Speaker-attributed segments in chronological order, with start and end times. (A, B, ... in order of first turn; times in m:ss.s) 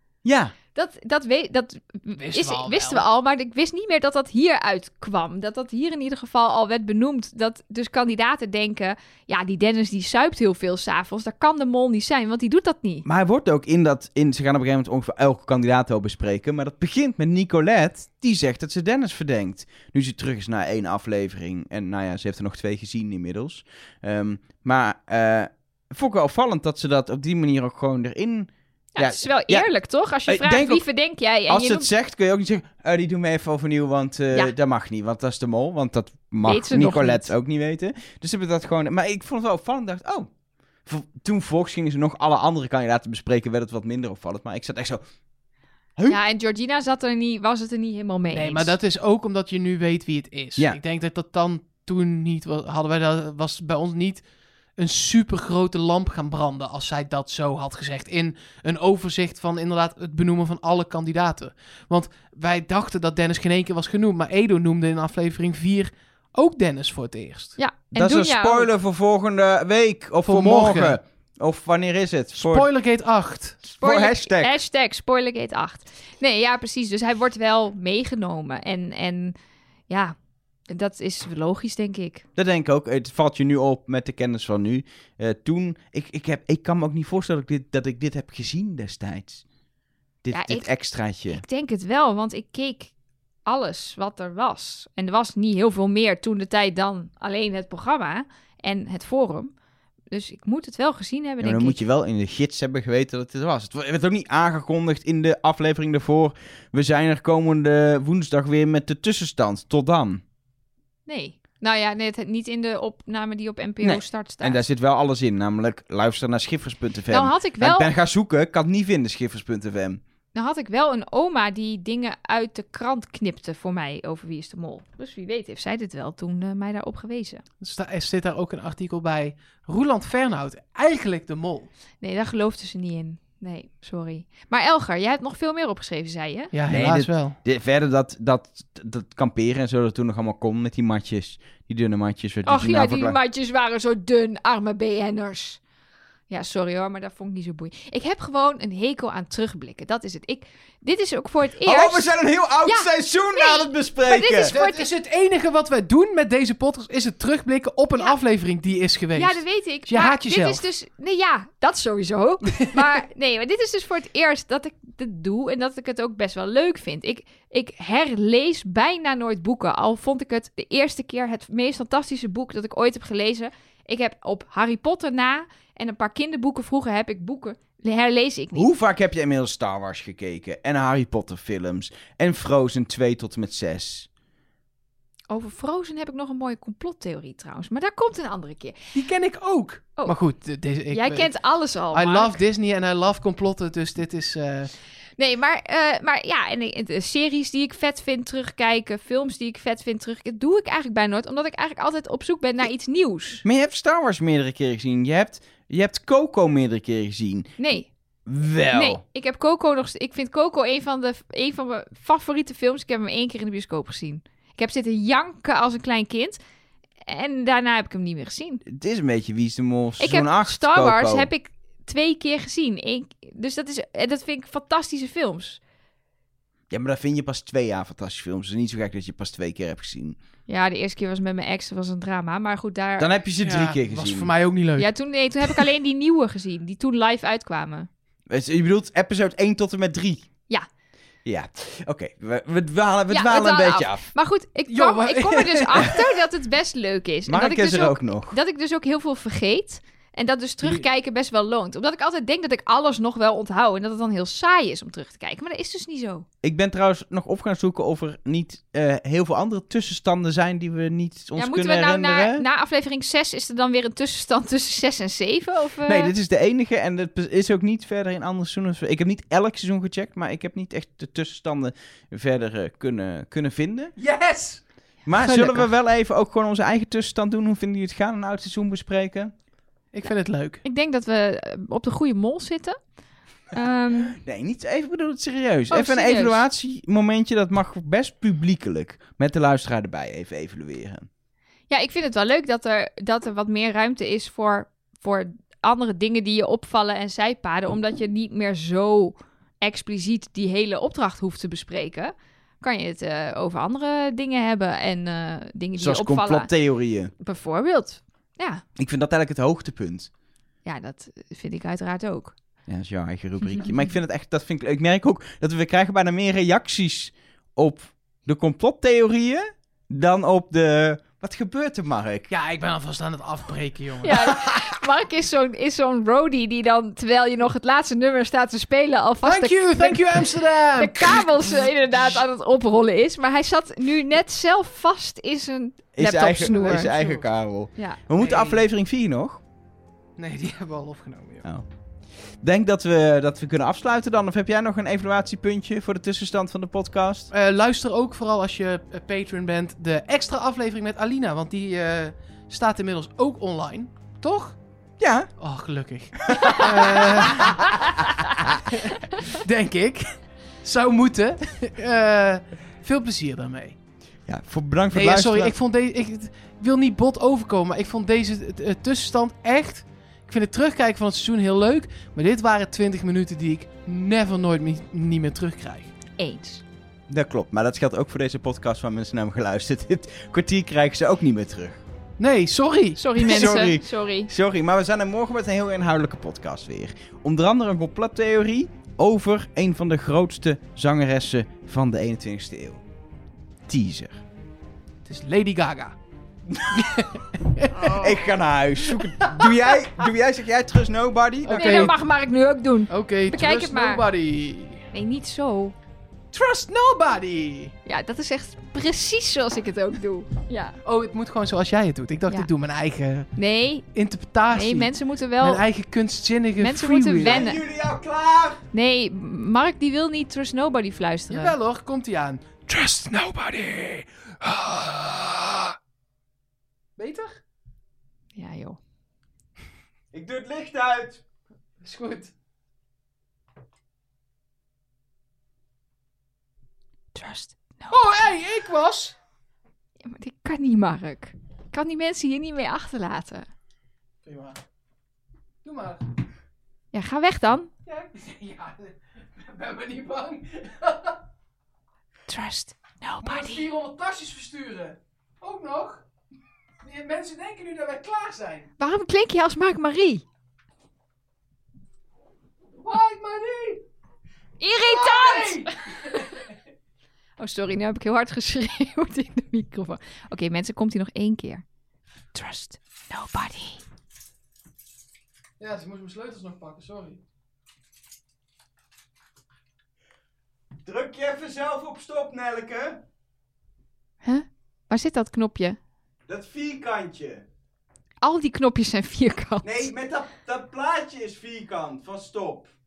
0:00.2-0:00.6 A
0:00.7-0:13.0 B
0:02.2-0:03.0 C
0:13.0-0:29.7 A
0:29.0-0:31.9 B
0:30.3-0:30.8 A
0:31.5-0:40.3 A
0:36.4-0:37.3 B
0:40.8-0:45.0 A
0:46.1-0:48.8 B
0:48.3-0:54.2 C
0:54.8-1:07.6 C
1:07.6-1:08.7 B
1:08.0-1:12.7 A
1:10.2-1:11.0 C
1:12.4-1:13.6 C
1:13.6-1:14.5 A
1:13.7-1:19.4 B
1:19.9-1:20.2 B
1:20.7-1:22.2 B
1:22.4-1:29.4 A
1:30.2-1:31.4 A
1:30.3-1:32.9 B
1:33.5-1:39.5 B
1:40.1-1:41.8 B
1:41.4-1:50.2 A
1:51.1-1:54.6 B
1:53.8-2:00.0 A
1:57.1-1:57.9 B
2:00.3-2:07.4 B
2:07.6-2:11.7 C
2:12.0-2:16.5 B
2:16.5-2:17.4 C
2:16.7-2:23.2 A
2:22.4-2:25.6 B
2:26.3-2:34.9 B
2:31.6-2:34.5 A
2:34.4-2:40.6 C
2:39.2-2:58.7 B
2:58.5-3:04.1 A
3:05.3-3:08.8 B
3:08.9-3:11.3 C
3:10.9-3:12.4 B
3:11.9-3:14.7 C
3:15.2-3:23.4 B
3:23.4-3:27.5 A
3:27.6-3:27.9 B
3:28.3-3:29.0 A
3:28.7-3:36.4 B
3:37.0-3:38.6 B
3:38.7-3:41.3 A
3:40.0-3:45.6 B
3:46.7-3:50.2 A
3:50.5-3:53.1 B
3:53.0-3:54.3 A
3:53.4-3:55.7 C
3:54.8-3:57.9 B
3:58.3-4:00.3 A
4:01.2-4:04.1 A
4:03.1-4:16.3 B
4:04.7-4:06.1 C
4:07.3-4:08.4 A
4:16.4-4:22.4 A
4:21.4-4:26.1 B
4:25.8-4:34.0 A
4:34.0-4:35.7 C
4:35.1-4:39.3 A
4:39.9-4:40.6 C
4:40.6-4:42.8 B
4:43.5-4:44.2 B
4:44.1-4:51.1 A
4:45.7-4:46.4 B
4:51.7-5:06.5 B
5:05.8-5:07.1 A
5:07.2-5:08.6 B
5:08.8-5:10.1 A
5:10.6-5:12.3 B
5:12.7-5:22.3 A
5:13.4-5:13.8 B
5:22.3-5:24.6 C
5:24.0-5:36.9 B
5:29.2-5:32.0 C
5:36.0-5:39.4 A
5:36.5-5:37.2 C
5:37.8-5:38.0 B
5:38.2-5:38.6 C
5:40.2-5:41.5 C
5:42.4-5:47.3 A
5:47.3-5:54.6 C
5:55.0-5:55.3 A
5:55.4-5:57.8 C
5:56.3-5:57.6 A
5:58.7-6:03.8 C
6:04.3-6:05.6 A
6:04.9-6:15.9 C
6:16.2-6:16.6 B
6:17.1-6:21.8 A
6:22.2-6:23.2 C
6:23.0-6:24.3 B
6:23.2-6:32.8 A
6:33.7-6:34.2 A
6:35.0-6:36.0 C
6:36.6-6:37.0 A
6:36.7-6:38.1 C
6:37.9-6:42.0 A
6:38.9-6:39.5 C
6:41.4-6:42.0 C
6:41.5-6:44.0 B
6:42.9-6:44.9 C
6:44.9-6:45.8 B
6:46.3-6:47.7 C
6:47.9-6:50.8 B
6:50.8-6:53.3 C
6:53.4-6:53.9 B
6:53.9-6:57.5 C
6:54.5-6:55.6 B
6:56.6-6:57.6 B
6:57.2-6:58.6 A
6:58.7-7:01.6 B
7:01.3-7:05.8 C
7:07.0-7:07.4 C
7:08.4-7:08.8 B
7:10.1-7:11.2 A
7:11.8-7:12.3 C
7:17.2-7:18.3 B
7:17.9-7:19.2 C
7:20.0-7:23.4 B
7:24.2-7:24.6 C
7:25.6-7:26.1 C
7:26.9-7:27.7 B
7:27.9-7:31.2 C
7:32.3-7:33.7 B
7:33.2-7:36.0 C
7:36.8-7:38.7 C
7:38.8-7:40.2 B
7:42.8-7:43.8 C
7:44.6-7:46.2 B
7:44.7-7:46.5 C
7:47.4-7:51.6 B
7:52.3-7:53.8 B
7:55.6-7:57.2 C
8:00.8-8:03.0 A
8:04.2-8:05.8 B
8:06.3-8:07.4 A
8:08.2-8:09.9 B
8:09.6-8:12.7 A